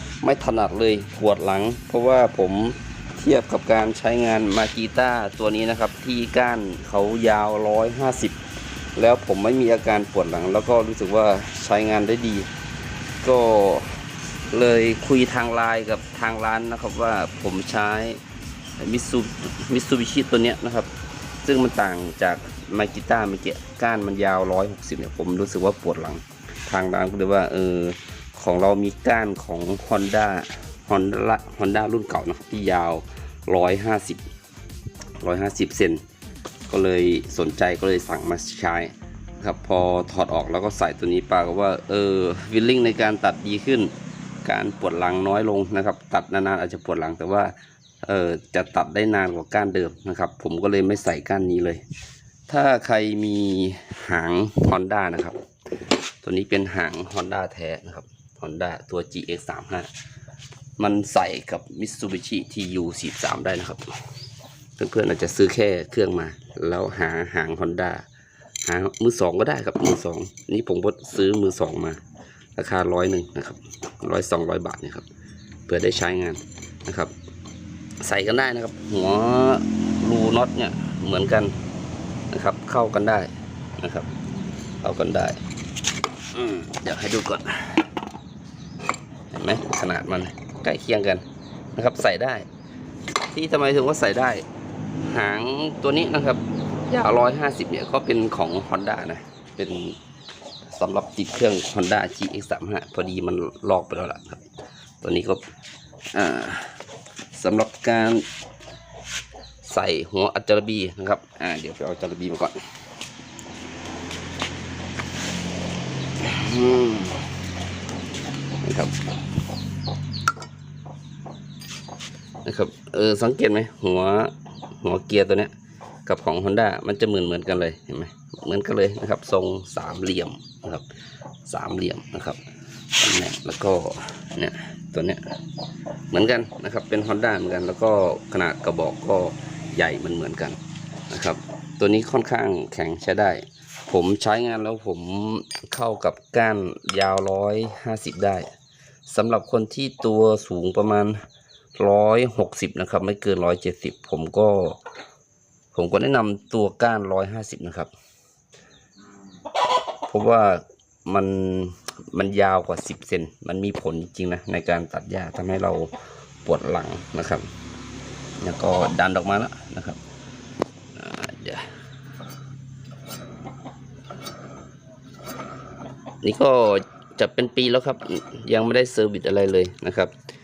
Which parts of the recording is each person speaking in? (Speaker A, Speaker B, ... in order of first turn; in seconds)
Speaker A: 0.2-8.4, 9.0-12.5, 13.2-14.0, 14.5-18.2, 18.8-20.9, 21.4-34.2, 35.2-36.0, 36.7-43.9, 44.4-51.8, 52.5-55.4, 56.2-59.9, 60.8-64.0, 64.8-68.0, 68.6-72.0, 72.6-75.1, 75.7-77.1, 78.0-81.6, 82.3-84.1, 84.8-85.4, 86.3-87.9, 89.3-92.5, 93.3-94.5, 95.0-100.0, 100.7-104.5, 105.0-105.4, 106.1-106.8, 107.3-108.2, 109.6-112.6, 116.2-117.3, 118.6-119.0, 122.4-125.5, 126.1-130.9, 131.5-132.4, 132.9-135.3, 136.1-140.6, 141.1-148.5, 149.1-151.2, 151.8-154.8, 155.7-157.9, 160.0-167.5, 168.4-170.0, 171.0-171.7, 176.2-180.1